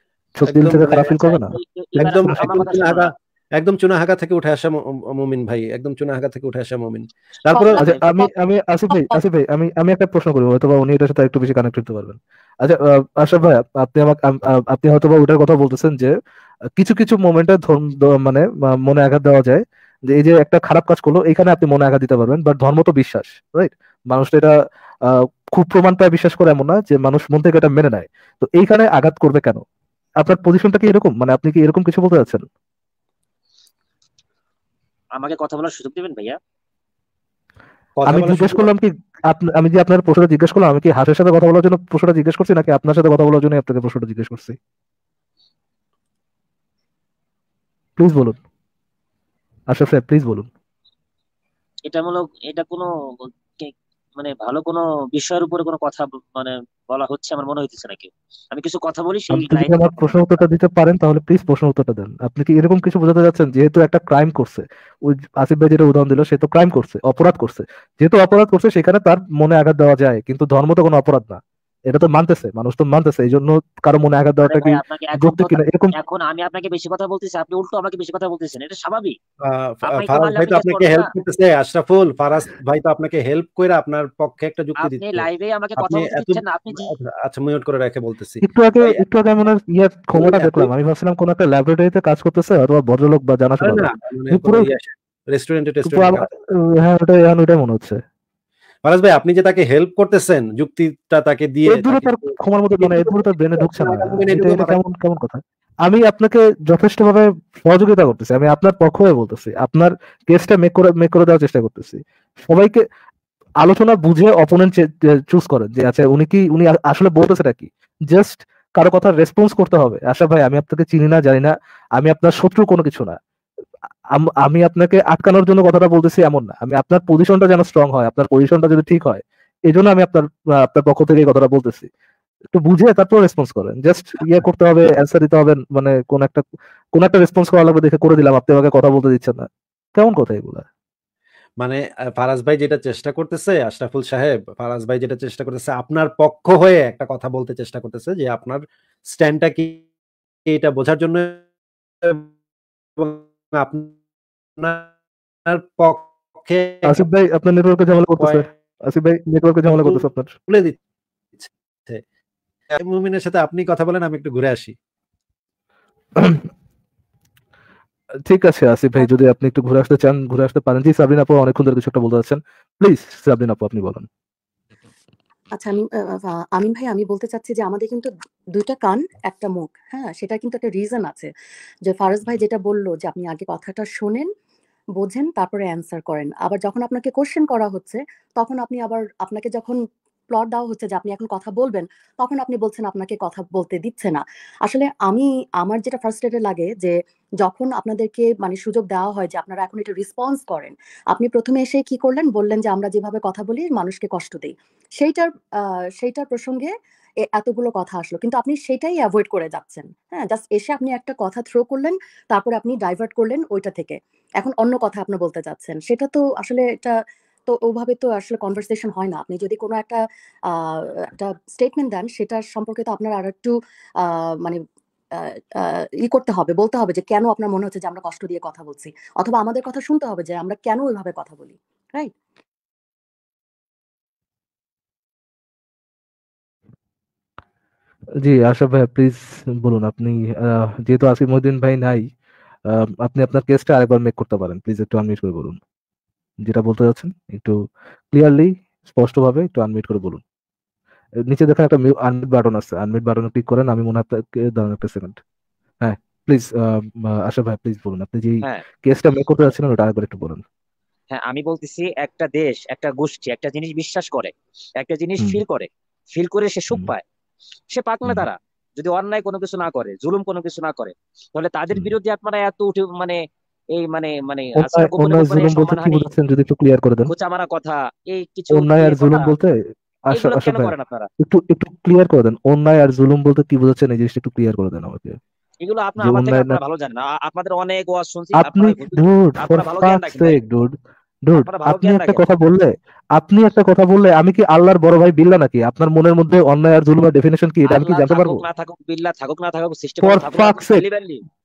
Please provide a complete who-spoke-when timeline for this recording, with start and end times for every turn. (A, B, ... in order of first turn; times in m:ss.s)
0:00.4-0:01.5 A
0:00.4-0:00.9 B
0:00.9-0:03.1 C
0:02.0-0:07.8 B
0:02.2-0:02.5 A
0:07.5-0:08.3 D
0:07.8-0:16.1 A
0:07.8-0:08.0 C
0:08.9-0:09.2 D
0:16.8-0:24.5 A
0:25.1-0:29.6 A
0:30.2-0:32.4 A
0:35.2-0:36.4 C
0:38.0-0:38.7 B
0:38.0-0:44.6 A
0:48.0-0:48.4 A
0:49.7-0:50.5 A
0:51.9-0:52.9 C
0:53.6-0:59.8 C
0:59.3-1:15.9 A
1:14.4-1:19.2 C
1:19.4-1:29.0 B
1:19.9-1:21.1 C
1:24.8-1:26.9 C
1:28.4-1:34.6 A
1:30.2-1:30.7 B
1:33.6-1:36.2 B
1:35.8-1:38.0 A
1:38.8-1:42.2 B
1:41.7-1:52.8 A
1:42.8-1:44.8 B
1:53.6-2:03.2 A
2:04.2-2:11.9 A
2:12.5-2:16.4 A
2:17.0-2:20.6 A
2:21.6-2:29.8 B
2:30.5-2:31.4 B
2:32.0-2:32.3 B
2:33.0-2:33.9 B
2:34.6-2:34.9 B
2:35.5-2:37.0 B
2:36.8-2:40.3 A
2:39.7-2:40.8 B
2:41.4-2:42.0 B
2:42.8-2:44.7 B
2:46.2-2:46.5 A
2:48.3-2:54.1 A
2:55.5-3:01.3 D
3:01.8-3:04.3 D
3:05.0-3:09.8 D
3:10.3-3:25.3 D
3:26.0-3:26.7 D
3:27.2-3:37.0 D
3:37.5-3:40.0 D
3:40.6-3:44.6 D
3:45.6-3:52.1 D
3:58.2-4:02.0 A
4:02.7-4:05.6 A
4:06.4-4:07.6 A
4:08.1-4:10.2 A
4:11.3-4:15.2 A
4:15.8-4:20.4 A
4:21.1-4:27.0 C
4:27.7-4:33.2 C
4:33.8-4:36.1 C
4:34.6-4:37.1 A
4:37.1-4:39.3 C
4:38.5-4:39.6 A
4:40.1-4:45.2 A
4:40.1-4:41.1 C
4:45.6-4:50.4 C
4:46.0-4:46.6 A
4:48.4-4:58.4 A
4:51.4-4:52.3 C
4:57.6-5:01.2 C
5:00.0-5:00.8 A